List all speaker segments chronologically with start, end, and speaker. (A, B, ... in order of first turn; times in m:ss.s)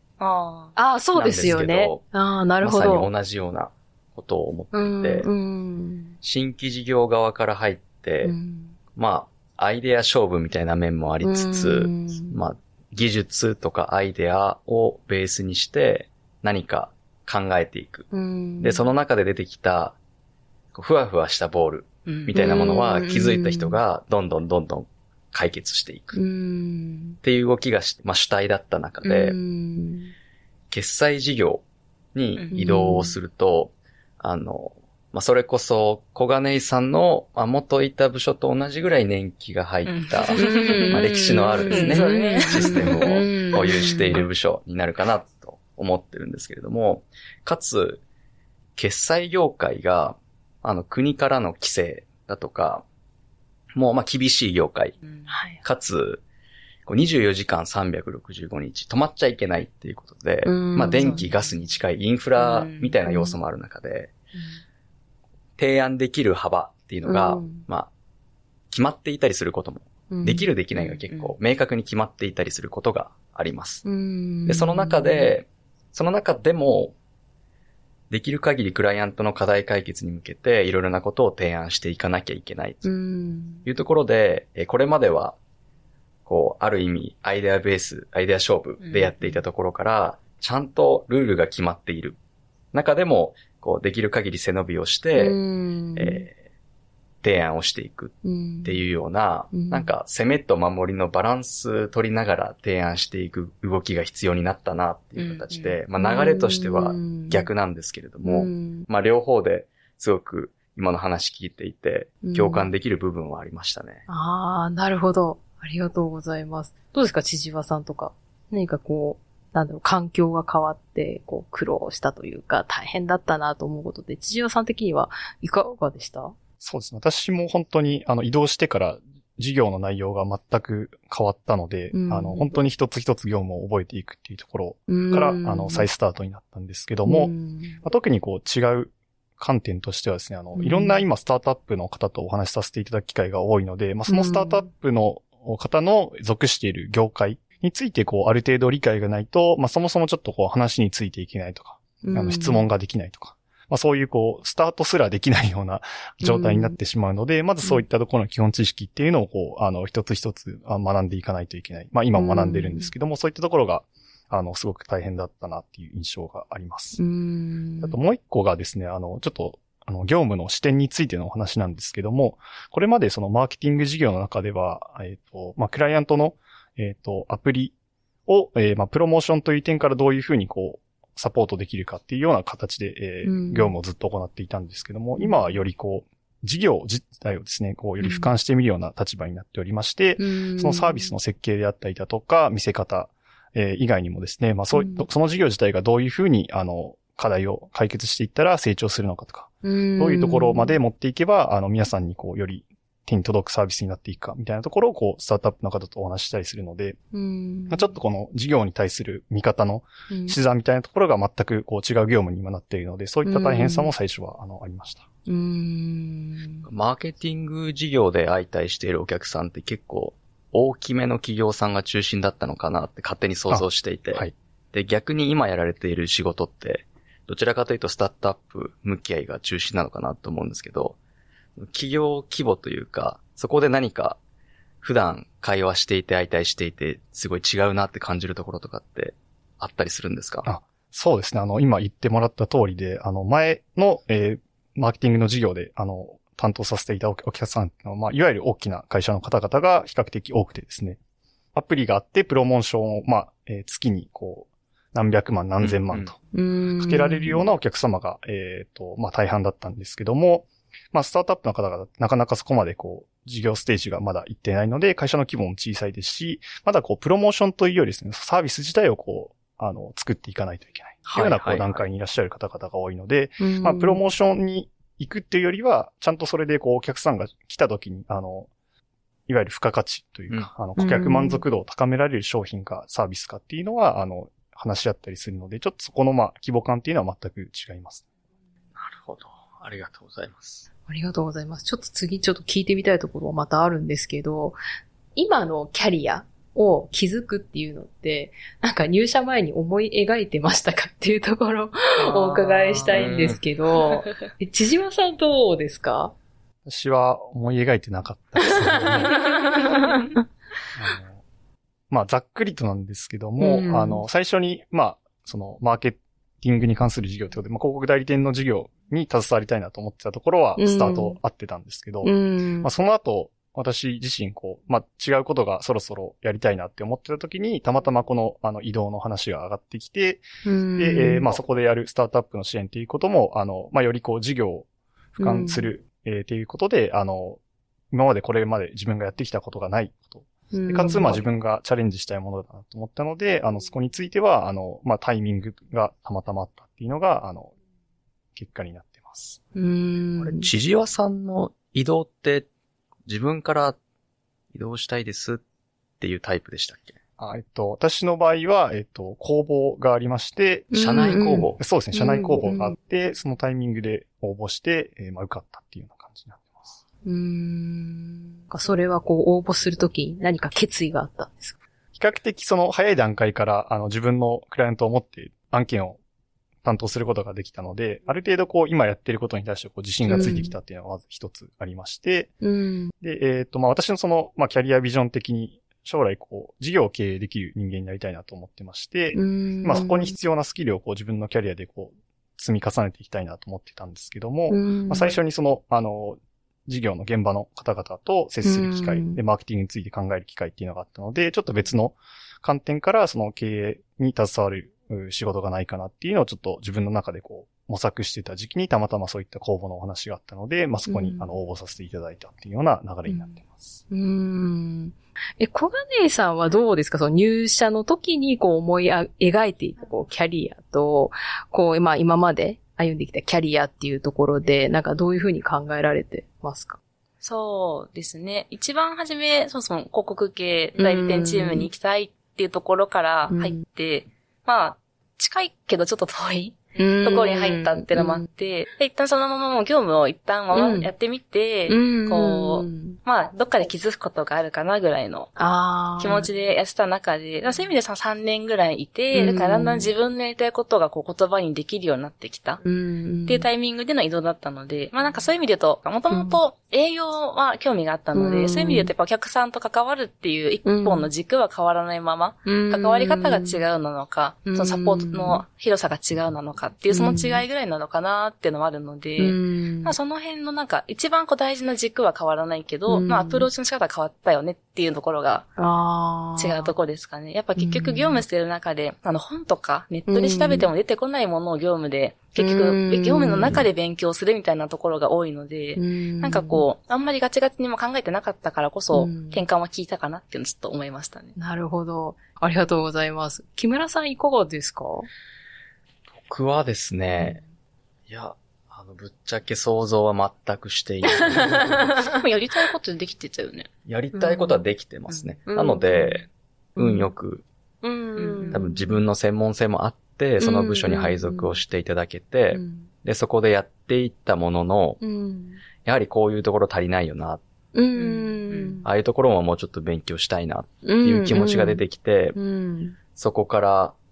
0:00.2-0:00.8 A
0:00.8-0:03.1 B
0:01.1-0:02.0 C
0:02.6-0:05.3 C
0:04.7-0:06.1 B
0:06.2-0:08.4 C
0:08.2-0:08.8 B
0:08.9-0:18.1 C
0:11.2-0:12.4 B
0:18.1-0:18.8 B
0:18.6-0:20.0 C
0:20.7-0:26.2 C
0:22.1-0:22.3 A
0:22.4-0:23.8 B
0:26.1-0:27.2 B
0:27.2-0:29.4 C
0:29.0-0:30.1 B
0:30.7-0:31.6 C
0:32.1-0:48.0 C
0:32.5-0:33.2 B
0:39.9-0:43.5 A
0:40.4-0:44.2 B
0:48.8-0:52.8 C
0:53.7-0:55.0 C
0:55.3-0:55.6 B
0:55.6-0:56.2 C
0:56.9-1:04.1 C
1:00.4-1:01.3 B
1:01.0-1:01.5 A
1:02.4-1:02.9 A
1:03.0-1:03.4 B
1:04.4-1:04.6 B
1:05.6-1:07.9 C
1:07.0-1:07.6 B
1:08.7-1:13.8 C
1:10.1-1:10.5 B
1:10.7-1:11.4 A
1:13.8-1:15.3 B
1:14.4-1:16.9 C
1:18.1-1:22.9 C
1:22.8-1:23.6 B
1:23.6-1:25.4 C
1:26.3-1:32.2 C
1:28.8-1:29.4 A
1:32.7-1:35.4 C
1:35.2-1:36.3 B
1:36.0-1:36.4 C
1:37.2-1:54.0 C
1:38.2-1:38.8 B
1:39.5-1:39.9 B
1:45.2-1:45.8 A
1:46.0-1:47.5 B
1:48.2-1:48.9 B
1:52.2-1:52.7 B
1:54.1-2:06.3 B
2:06.6-2:47.0 D
2:11.9-2:12.6 B
2:14.9-2:15.9 B
2:17.0-2:17.8 B
2:20.6-2:21.0 B
2:24.1-2:24.7 B
2:32.0-2:32.7 B
2:36.2-2:36.8 B
2:42.1-2:42.9 B
2:47.0-2:48.0 B
2:47.8-2:57.7 D
2:58.3-3:27.0 D
3:03.2-3:03.8 B
3:05.2-3:05.6 B
3:08.0-3:08.3 B
3:10.2-3:11.1 B
3:14.7-3:15.1 B
3:19.6-3:20.8 B
3:27.1-3:28.0 B
3:27.7-3:35.0 D
3:30.1-3:30.4 B
3:33.2-3:33.9 B
3:35.3-3:36.6 B
3:36.6-3:51.0 C
3:43.5-3:44.3 D
3:51.6-3:54.2 C
3:54.8-4:00.5 C
4:00.4-4:11.0 D
4:11.5-4:16.2 D
4:15.6-4:16.1 C
4:16.3-4:17.5 B
4:16.8-4:38.5 D
4:31.1-4:31.8 C
4:33.4-4:34.0 B
4:39.3-4:48.0 D
4:40.8-4:41.4 B
4:48.8-4:50.7 C
4:50.9-4:54.6 B
4:55.1-5:06.1 B
5:02.1-5:03.4 C
5:06.6-5:09.3 D
5:08.9-5:10.1 B
5:10.7-5:11.2 D
5:11.9-5:30.3 D
5:13.4-5:14.0 B
5:20.6-5:21.2 B
5:22.0-5:22.7 B
5:30.4-5:31.3 B
5:30.8-5:37.4 D
5:35.2-5:35.7 B
5:37.9-5:47.5 D
5:40.5-5:41.2 B
5:48.4-5:49.4 D
5:49.6-5:50.5 B
5:50.2-5:52.5 C
5:53.1-5:53.8 C
5:54.5-5:55.4 C
5:56.0-5:57.0 C
5:57.2-6:00.7 D
6:00.7-6:02.8 B
6:00.7-6:01.6 C
6:01.6-6:06.8 D
6:07.0-6:11.6 B
6:11.9-6:16.0 D
6:16.6-6:22.3 D
6:20.1-6:20.5 B
6:22.4-6:22.9 B
6:23.0-6:53.8 D
6:29.1-6:30.1 B
6:34.5-6:35.1 B
6:38.4-6:39.2 B
6:50.9-6:51.3 B
6:53.1-6:53.4 B
6:53.9-7:06.8 B
7:07.2-7:25.3 A
7:10.8-7:11.7 B
7:13.3-7:13.6 B
7:16.8-7:18.3 B
7:20.5-7:20.9 B
7:21.7-7:23.0 B
7:25.4-7:26.3 B
7:26.0-7:32.6 A
7:29.1-7:29.9 B
7:32.6-7:33.5 B
7:33.3-7:55.5 A
7:36.1-7:36.4 B
7:38.1-7:38.9 B
7:40.6-7:41.1 B
7:42.4-7:43.6 B
7:44.5-7:45.4 B
7:46.9-7:47.4 B
7:49.2-7:49.9 B
7:52.9-7:53.5 B
7:55.6-7:56.7 B
7:56.4-8:11.4 A
7:57.6-7:58.2 B
8:00.1-8:00.7 B
8:02.4-8:03.6 B
8:05.8-8:06.6 B
8:08.9-8:09.4 B
8:11.4-8:15.1 B
8:16.1-8:17.4 C
8:17.1-8:17.4 B
8:18.1-8:22.0 C
8:21.2-8:22.1 B
8:22.1-8:23.7 A
8:23.8-8:27.4 C
8:24.1-8:24.6 B
8:25.5-8:27.1 B
8:27.8-8:29.0 B
8:28.2-8:28.6 A
8:28.5-8:35.0 C
8:30.4-8:31.6 B
8:32.5-8:32.9 B
8:35.0-8:35.6 B
8:35.8-8:37.4 C
8:37.7-8:38.9 B
8:38.0-8:38.8 A
8:38.8-8:42.4 C
8:40.8-8:43.0 B
8:43.1-8:43.9 C